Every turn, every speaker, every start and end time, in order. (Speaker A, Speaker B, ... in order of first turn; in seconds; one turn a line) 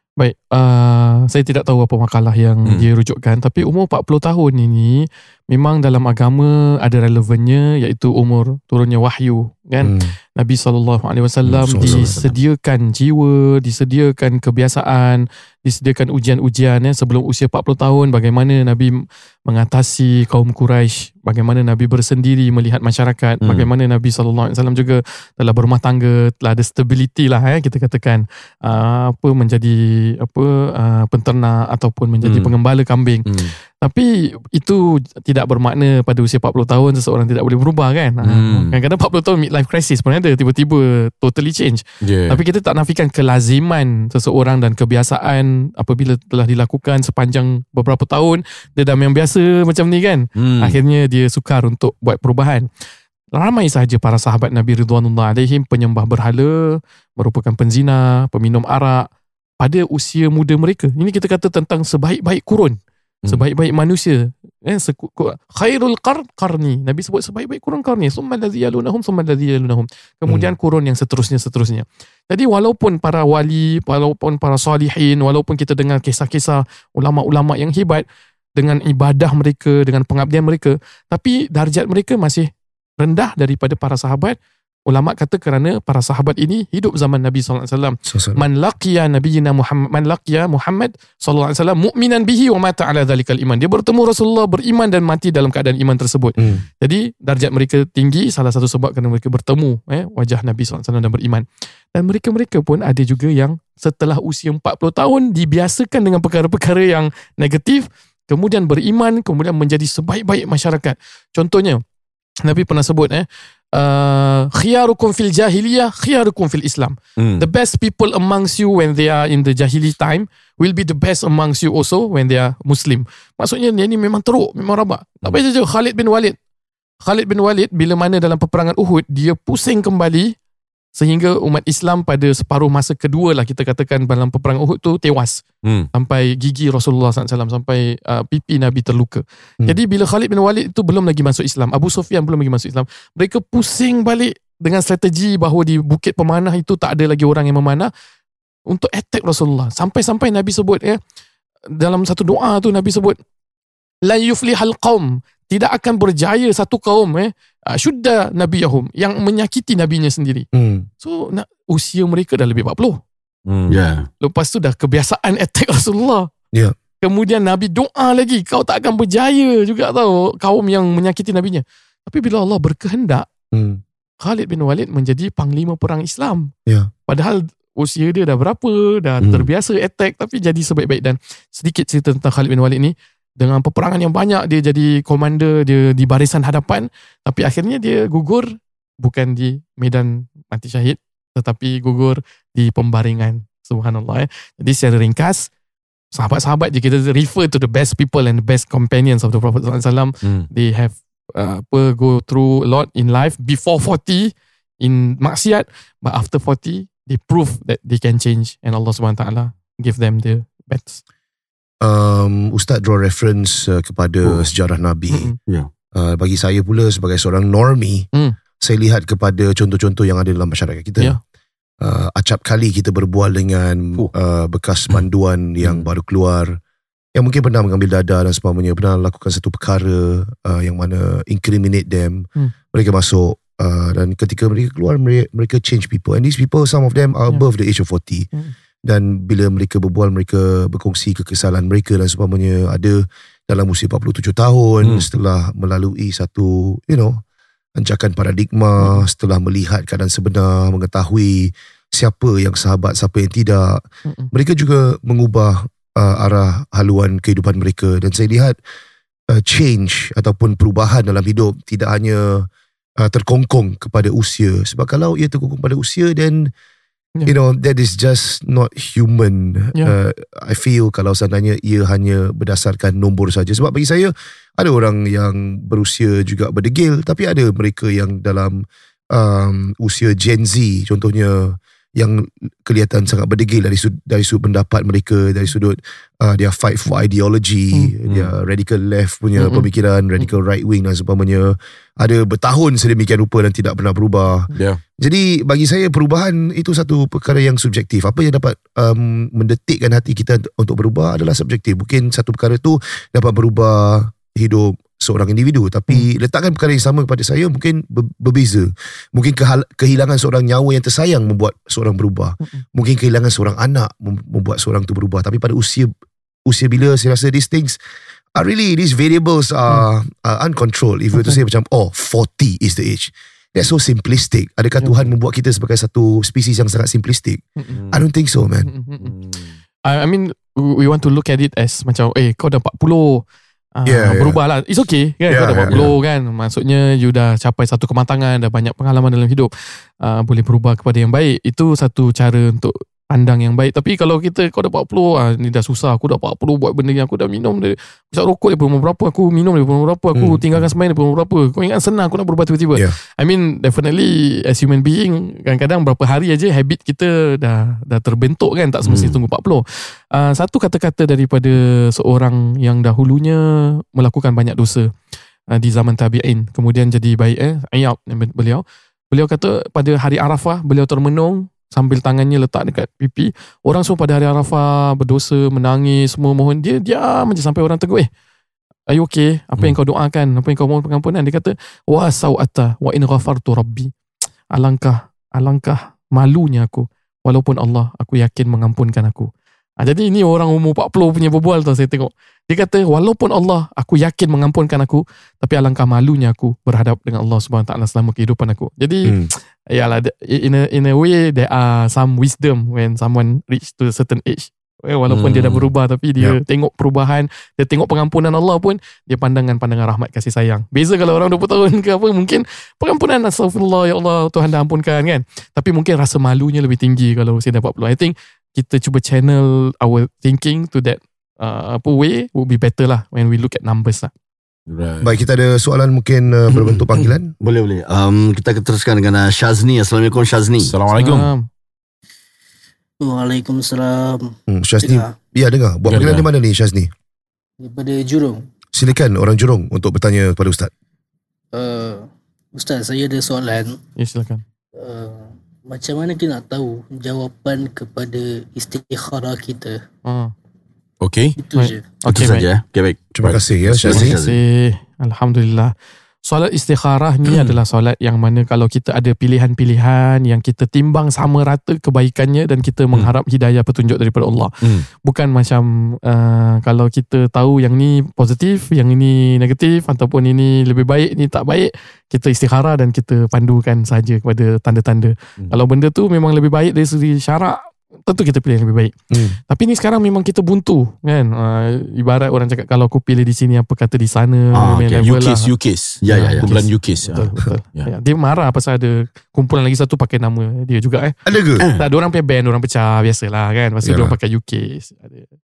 Speaker A: 0.2-33.3
Speaker B: 9.8-10.1
Speaker B: 11.6-12.2
Speaker C: 11.8-12.4
Speaker D: 23.4-23.7
Speaker D: 32.2-32.5
Speaker D: 33.3-33.5
Speaker A: 33.8-52.7
Speaker D: 38.3-38.8
Speaker D: 42.0-42.4
Speaker D: 50.4-50.8
Speaker A: 53.3-59.1
Speaker A: 59.6-78.0
Speaker A: 78.6-82.5
Speaker A: 83.0-111.8
Speaker B: 88.1-88.5
Speaker B: 96.4-96.6
Speaker A: 112.5-126.4
Speaker D: 117.2-117.5
Speaker A: 127.0-130.3
Speaker A: 131.0-135.4
Speaker D: 135.6-135.9
Speaker A: 135.9-147.9
Speaker A: 148.7-151.0
Speaker A: 151.8-153.2
Speaker A: 154.1-160.5
Speaker B: 160.5-160.9
Speaker A: 161.0-163.0
Speaker D: 163.5-163.8
Speaker C: 163.7-164.1
Speaker A: 164.2-166.3
Speaker A: 167.0-173.3
Speaker B: 173.5-173.8
Speaker A: 174.2-176.5
Speaker A: 177.1-188.5
Speaker B: 179.2-179.5
Speaker A: 189.0-195.5
Speaker A: 196.1-211.0
Speaker D: 200.2-200.5
Speaker B: 211.8-215.3
Speaker B: 215.9-218.1
Speaker B: 218.6-221.2
Speaker B: 221.8-226.6
Speaker B: 227.2-238.3
Speaker B: 238.8-247.2
Speaker D: 244.8-245.1
Speaker B: 247.8-258.6
Speaker A: 248.8-249.1
Speaker A: 254.1-254.3
Speaker B: 259.3-262.5
Speaker B: 263.0-266.5
Speaker B: 267.3-294.5
Speaker D: 288.1-288.3
Speaker A: 289.4-289.7
Speaker D: 294.6-294.8
Speaker B: 295.0-315.9
Speaker B: 316.5-317.8
Speaker B: 318.4-328.7
Speaker A: 324.8-325.1
Speaker D: 327.8-328.0
Speaker A: 328.7-329.2
Speaker D: 329.0-329.6
Speaker A: 329.9-333.2
Speaker A: 333.8-339.5
Speaker B: 333.9-334.4
Speaker B: 335.3-335.9
Speaker A: 340.0-364.9
Speaker B: 350.1-350.5
Speaker C: 358.9-359.2
Speaker A: 365.5-378.1
Speaker A: 378.9-383.9
Speaker A: 384.5-399.1
Speaker A: 399.7-424.1
Speaker D: 405.1-405.7
Speaker D: 424.7-425.2
Speaker B: 425.0-427.3
Speaker C: 427.4-430.7
Speaker D: 430.6-431.3
Speaker A: 431.0-431.5
Speaker E: 433.0-435.1
Speaker B: 434.5-436.9
Speaker D: 435.9-436.3
Speaker E: 437.6-438.4
Speaker B: 438.7-440.7
Speaker E: 441.5-443.8
Speaker A: 444.0-444.4
Speaker E: 444.8-449.8
Speaker A: 450.1-450.3
Speaker D: 451.0-451.4
Speaker E: 451.4-452.0
Speaker A: 451.5-452.5
Speaker C: 452.0-454.4
Speaker B: 453.1-454.2
Speaker D: 453.2-454.1
Speaker A: 454.2-455.7
Speaker A: 456.2-478.9
Speaker D: 457.2-457.6
Speaker B: 479.1-479.4
Speaker A: 479.5-485.5
Speaker C: 484.6-484.9
Speaker D: 484.8-487.9
Speaker C: 486.0-486.5
Speaker A: 486.1-491.1
Speaker B: 491.2-491.6
Speaker C: 491.6-491.9
Speaker A: 491.7-495.3
Speaker B: 493.8-494.1